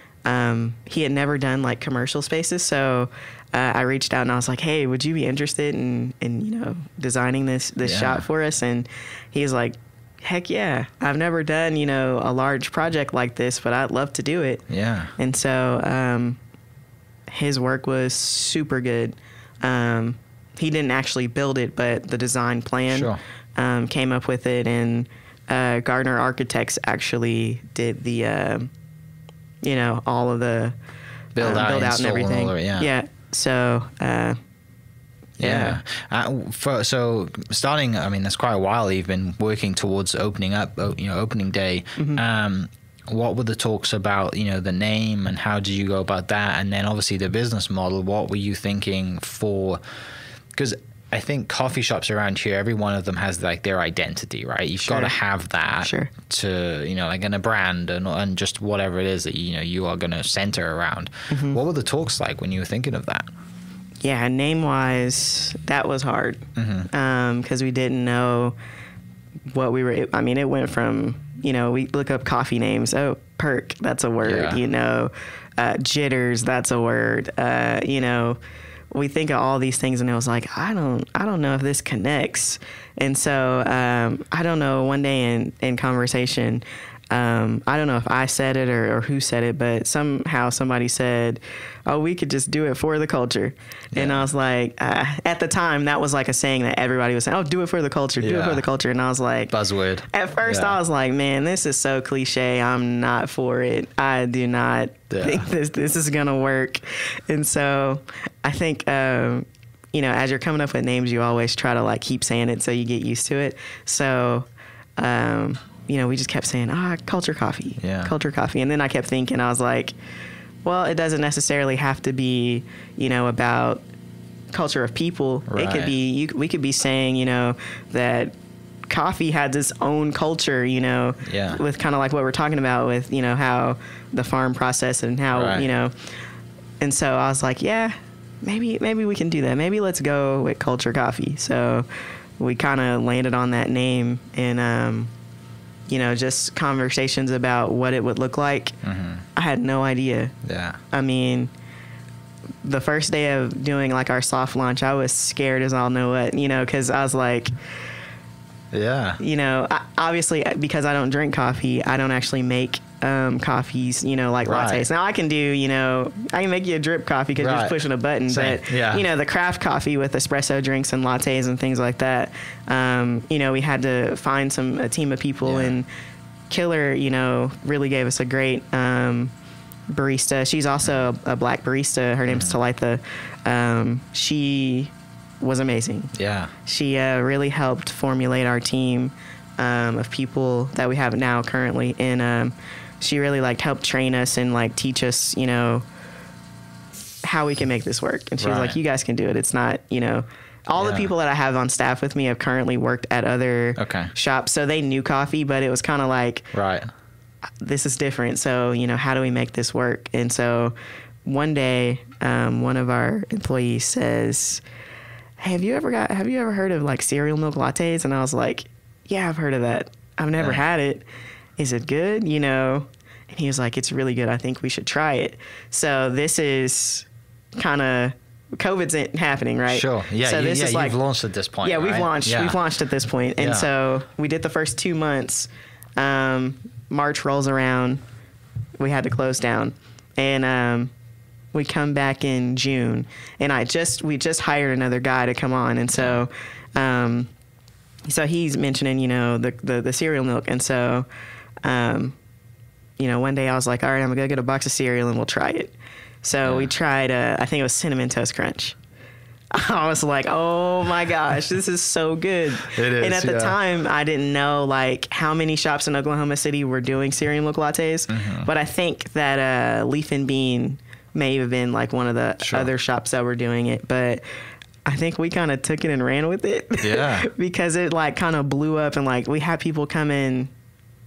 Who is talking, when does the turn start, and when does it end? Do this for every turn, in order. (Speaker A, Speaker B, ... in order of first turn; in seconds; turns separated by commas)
Speaker A: 0.3-14.6, Speaker B: 7.8-8.2, Speaker B: 14.7-15.1, Speaker A: 15.2-16.4, Speaker A: 17.3-28.7, Speaker B: 22.9-23.2, Speaker A: 29.6-30.8, Speaker B: 31.4-32.9, Speaker A: 31.4-34.4, Speaker A: 35.4-35.8, Speaker B: 35.4-49.8, Speaker B: 50.5-63.3, Speaker A: 54.8-55.1, Speaker A: 55.8-56.1, Speaker A: 61.3-61.6, Speaker A: 64.0-68.5, Speaker B: 66.6-66.9, Speaker A: 69.5-78.4, Speaker B: 74.2-74.6, Speaker A: 78.9-99.5, Speaker B: 93.9-94.3, Speaker B: 98.2-98.6, Speaker B: 99.5-100.8, Speaker A: 100.1-120.0, Speaker B: 105.1-105.5, Speaker B: 117.8-118.1, Speaker A: 120.6-123.8, Speaker A: 124.5-128.3, Speaker B: 125.5-125.9, Speaker A: 128.9-135.9, Speaker B: 131.2-131.6, Speaker B: 135.3-135.7, Speaker A: 136.8-141.9, Speaker A: 142.4-145.1, Speaker A: 145.9-148.8, Speaker B: 148.8-149.2, Speaker A: 149.4-150.3, Speaker B: 150.4-150.8, Speaker A: 150.9-151.5, Speaker A: 152.6-157.5, Speaker B: 158.7-159.2, Speaker A: 159.2-175.9, Speaker B: 164.5-164.9, Speaker B: 167.4-169.1, Speaker B: 175.4-175.7, Speaker A: 176.5-179.3, Speaker A: 179.9-186.1, Speaker B: 182.3-182.6, Speaker B: 186.1-186.5, Speaker A: 186.7-195.8, Speaker A: 197.2-206.5, Speaker B: 198.4-198.8, Speaker B: 200.8-201.1, Speaker B: 203.8-204.1, Speaker B: 206.5-206.9, Speaker A: 207.6-210.7, Speaker A: 211.2-214.6, Speaker A: 215.4-221.1, Speaker A: 221.6-231.0, Speaker B: 229.7-232.6, Speaker A: 231.6-238.0, Speaker B: 233.4-233.7, Speaker A: 238.8-240.9, Speaker A: 241.5-247.3, Speaker A: 248.1-251.1, Speaker A: 251.6-252.2, Speaker A: 253.0-258.8, Speaker B: 256.4-256.7, Speaker A: 259.5-274.2, Speaker B: 262.7-263.6, Speaker B: 268.1-268.5, Speaker B: 272.4-272.7, Speaker A: 274.9-280.5, Speaker B: 276.8-277.3